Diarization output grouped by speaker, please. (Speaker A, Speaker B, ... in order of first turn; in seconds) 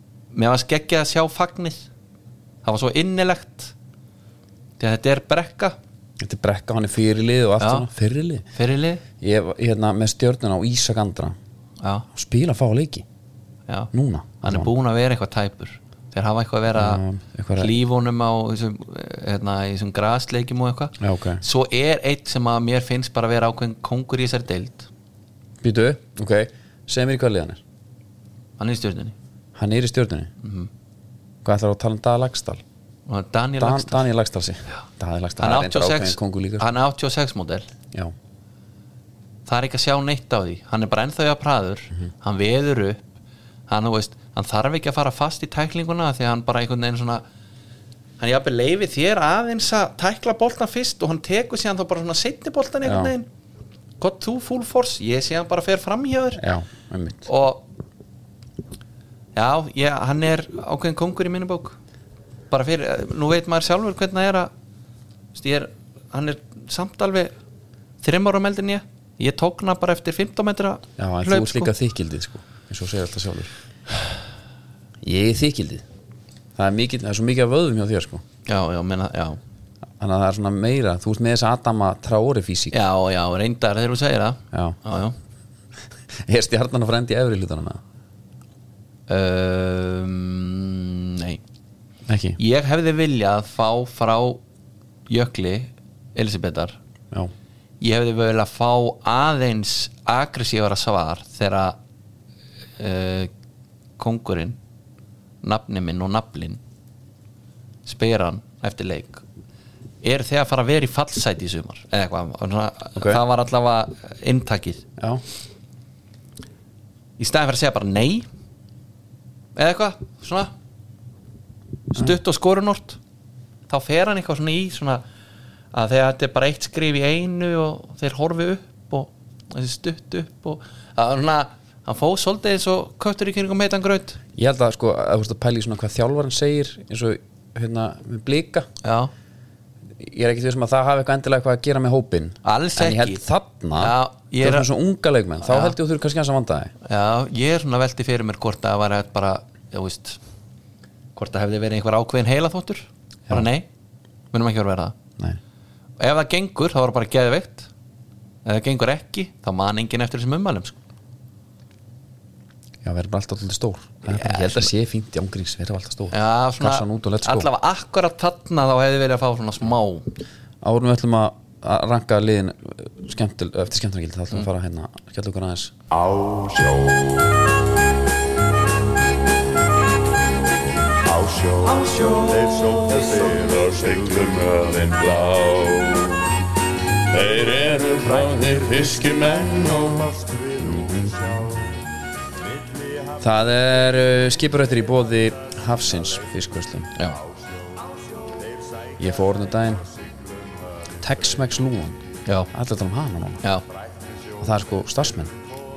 Speaker A: 0.3-1.9, 2.6-3.7, 4.8-5.8, 7.6-7.9, 8.6-9.0, 11.8-12.1, 14.4-17.0, 17.6-24.9, 28.6-29.1, 30.4-30.7, 33.1-34.1, 35.4-37.7, 39.5-43.0, 43.7-47.2, 48.2-53.3, 54.0-56.4, 57.3-57.6, 59.4-61.8, 62.5-64.5, 65.3-67.3, 68.0-71.7, 78.5-79.4, 82.7-85.2, 89.1-91.4, 92.4-94.4, 95.1-96.8, 97.8-101.8, 102.8-103.3, 104.0-104.6, 105.4-106.6, 107.8-109.2, 110.0-114.9, 117.2-118.3, 119.5-120.5, 121.9-123.0, 123.7-125.0, 125.7-134.2, 138.8-139.1, 142.4-143.2, 143.8-144.7, 145.4-145.8, 146.8-150.2, 151.2-153.7, 154.3-154.9, 156.0-157.7, 158.4-160.8, 164.1-164.7, 166.1-170.1, 181.6-183.5, 197.0-197.2, 202.2-202.5
Speaker B: 6.2-8.4, 9.2-11.3, 12.1-13.1, 13.9-14.7, 16.7-17.7, 21.0-21.4, 25.6-27.6, 29.6-30.3, 31.4-32.6, 33.6-36.7, 52.9-53.1, 56.4-57.3, 71.0-73.5, 75.0-75.8, 76.6-78.2, 80.0-82.8, 84.5-84.8, 86.2-87.8, 92.1-92.4, 113.0-113.2, 134.4-138.7, 140.0-146.7, 162.8-167.5, 170.6-175.8, 187.2-189.8, 190.5-191.6, 193.2-196.9, 199.0-199.9, 201.0-202.0, 202.5-203.4, 204.4-205.3
Speaker C: 176.4-177.1, 181.2-181.6, 182.6-186.2, 187.1-190.2